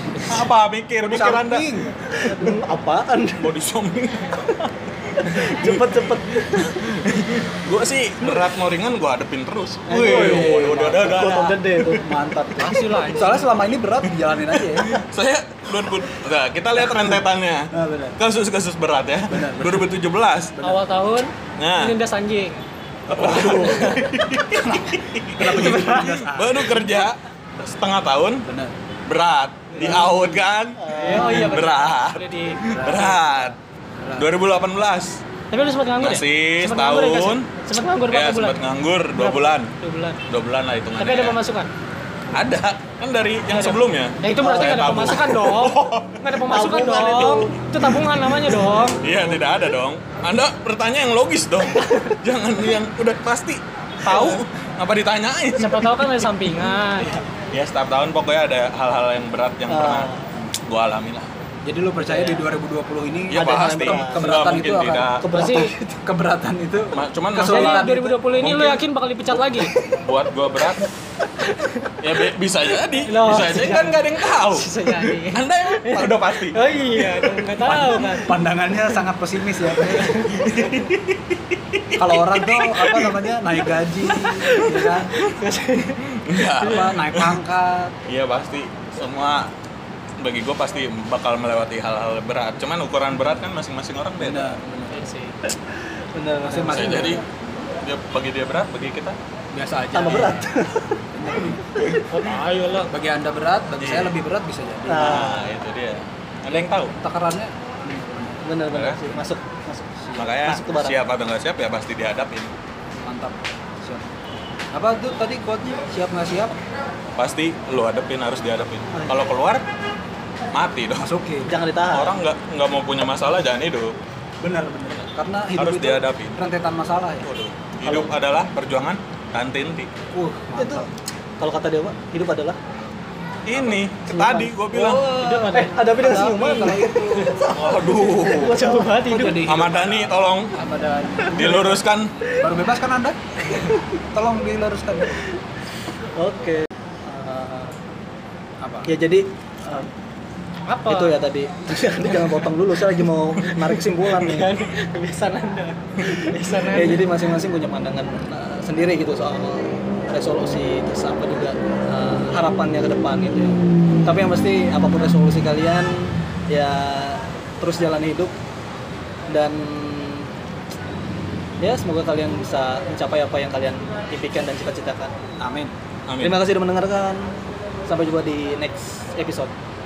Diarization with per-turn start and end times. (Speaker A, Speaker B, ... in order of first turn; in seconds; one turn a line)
Speaker A: 0.2-2.0
Speaker B: 1.0-2.0
Speaker C: 2.2-3.5
Speaker A: 3.4-4.7
Speaker C: 5.2-7.0
Speaker A: 5.3-5.8
Speaker A: 6.6-12.0
Speaker C: 9.9-12.0
Speaker B: 9.9-11.3
Speaker B: 12.0-15.0
Speaker D: 12.6-13.5
Speaker A: 14.5-20.6
Speaker B: 16.9-17.2
Speaker B: 17.7-18.2
Speaker B: 19.3-19.9
Speaker B: 20.6-20.9
Speaker D: 20.6-22.6
Speaker A: 21.6-22.0
Speaker B: 23.1-24.1
Speaker A: 23.1-28.5
Speaker B: 24.6-27.0
Speaker D: 25.6-26.1
Speaker B: 28.5-28.7
Speaker A: 29.1-33.6
Speaker B: 29.7-30.5
Speaker C: 30.8-31.5
Speaker D: 31.0-33.1
Speaker B: 32.6-34.3
Speaker A: 34.2-35.2
Speaker D: 35.5-38.6
Speaker A: 36.0-39.7
Speaker D: 39.1-40.2
Speaker A: 40.3-41.4
Speaker D: 41.0-41.7
Speaker A: 42.3-46.3
Speaker D: 44.2-49.0
Speaker C: 44.2-44.9
Speaker C: 46.5-47.5
Speaker A: 49.0-56.1
Speaker D: 54.0-54.4
Speaker D: 55.5-57.2
Speaker A: 57.5-60.1
Speaker C: 59.7-60.3
Speaker A: 60.7-61.3
Speaker B: 61.6-68.3
Speaker C: 62.0-62.5
Speaker A: 63.3-65.3
Speaker C: 63.3-64.5
Speaker C: 65.2-65.7
Speaker D: 65.3-65.7
Speaker A: 66.9-69.4
Speaker D: 67.4-69.7
Speaker A: 69.9-70.9
Speaker D: 71.4-72.0
Speaker A: 72.0-78.0
Speaker D: 73.0-79.0
Speaker B: 77.7-80.2
Speaker D: 79.8-80.6
Speaker A: 80.3-82.9
Speaker B: 82.0-85.2
Speaker D: 83.0-83.2
Speaker D: 84.1-86.9
Speaker A: 86.0-87.4
Speaker B: 86.6-87.9
Speaker A: 88.1-89.5
Speaker A: 90.2-94.6
Speaker B: 94.2-95.0
Speaker D: 94.9-95.4
Speaker C: 96.2-97.2
Speaker B: 96.5-97.3
Speaker A: 96.7-97.2
Speaker A: 97.8-99.2
Speaker B: 99.5-100.5
Speaker C: 99.9-101.0
Speaker B: 101.1-101.7
Speaker C: 101.8-102.1
Speaker D: 102.1-102.9
Speaker B: 102.9-105.3
Speaker A: 103.8-104.2
Speaker C: 104.9-105.5
Speaker A: 104.9-106.9
Speaker B: 107.0-108.4
Speaker C: 108.4-109.9
Speaker A: 108.7-109.2
Speaker B: 110.0-110.4
Speaker A: 110.2-112.5
Speaker C: 110.4-111.0
Speaker B: 112.9-114.1
Speaker B: 114.7-116.5
Speaker A: 117.2-119.7
Speaker C: 118.9-119.3
Speaker A: 120.5-121.1
Speaker B: 121.0-121.5
Speaker C: 121.5-122.2
Speaker A: 121.9-124.0
Speaker B: 124.4-127.3
Speaker A: 125.5-126.4
Speaker A: 127.2-129.9
Speaker C: 127.8-128.1
Speaker B: 130.1-130.9
Speaker C: 130.6-130.9
Speaker C: 131.4-132.6
Speaker A: 133.5-135.1
Speaker C: 134.1-134.5
Speaker B: 134.7-137.6
Speaker D: 135.1-139.5
Speaker C: 135.5-139.4
Speaker A: 137.6-138.6
Speaker B: 138.9-143.2
Speaker A: 139.4-140.6
Speaker A: 141.3-142.1
Speaker B: 144.1-145.2
Speaker C: 146.2-147.8
Speaker B: 148.6-148.9
Speaker C: 148.9-149.9
Speaker D: 150.7-151.2
Speaker C: 150.8-154.5
Speaker D: 153.4-157.2
Speaker C: 156.0-168.3
Speaker C: 169.3-170.3
Speaker C: 171.6-175.1
Speaker B: 175.4-175.7
Speaker A: 176.1-176.4
Speaker C: 176.2-179.5